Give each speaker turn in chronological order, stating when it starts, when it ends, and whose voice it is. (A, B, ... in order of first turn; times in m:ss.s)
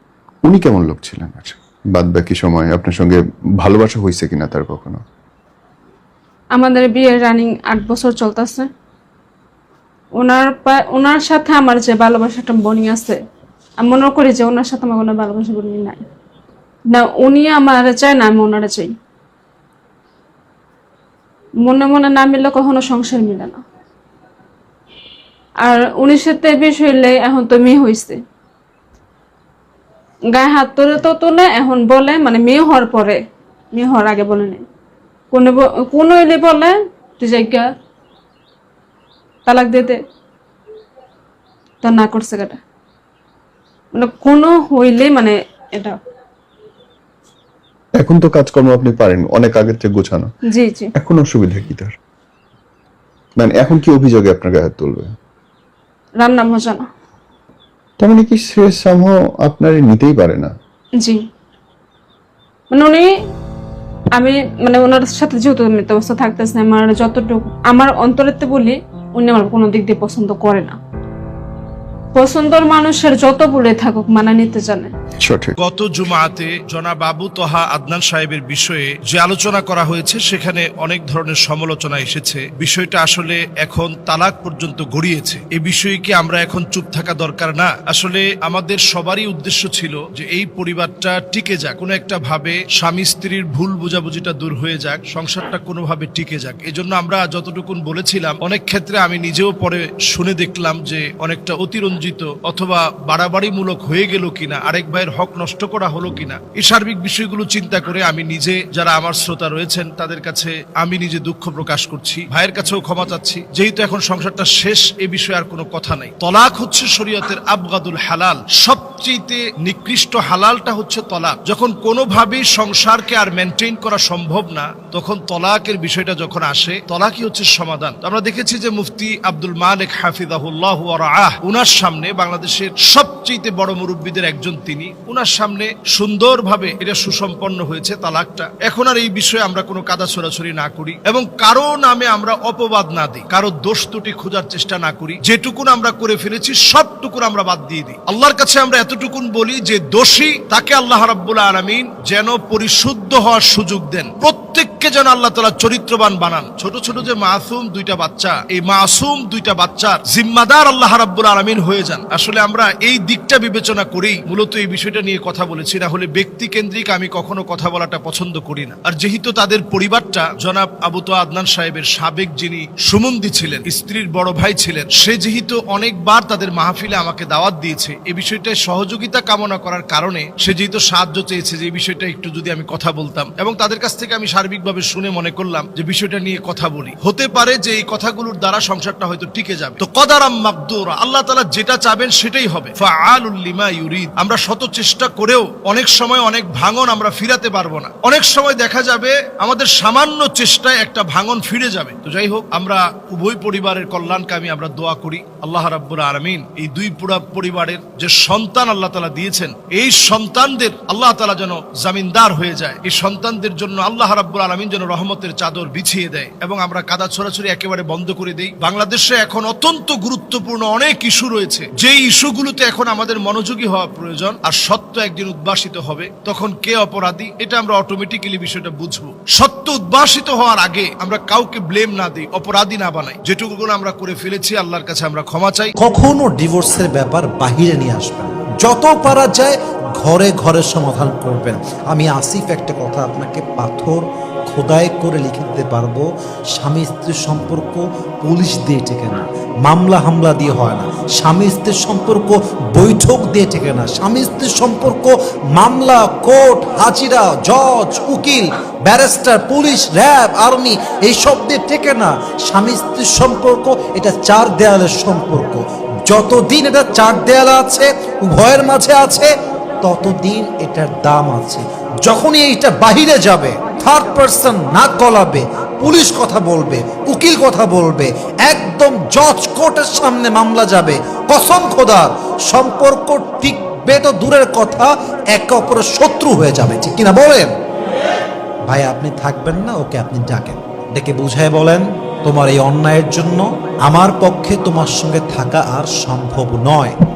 0:00.4-0:05.0 A
0:06.6-0:08.7 B
0:10.2-0:13.2 B
0:13.8-0:16.0 B
0:16.9-0:18.9 B
0:21.6-0:23.6 B
0:25.6-0:28.2 B
0:30.3-0:33.2 B
0:33.7-0:34.6 B
0:35.3-0:37.7 B
0:39.5-0:40.0 B
0:41.8-0:42.6 B
0:44.0-0:46.0 B
0:48.0-0:50.3 A
0:50.5-0:50.9 B
0:51.0-0:52.0 A
0:53.4-0:55.1 A
0:56.2-0:56.9 B
0:58.0-1:00.5 A
1:02.7-1:03.1 B
1:04.2-1:10.8 B
1:12.2-1:14.9 B
1:15.2-1:15.6 A
1:15.6-3:55.8 C
3:55.8-4:47.5 D
4:48.7-4:57.0 D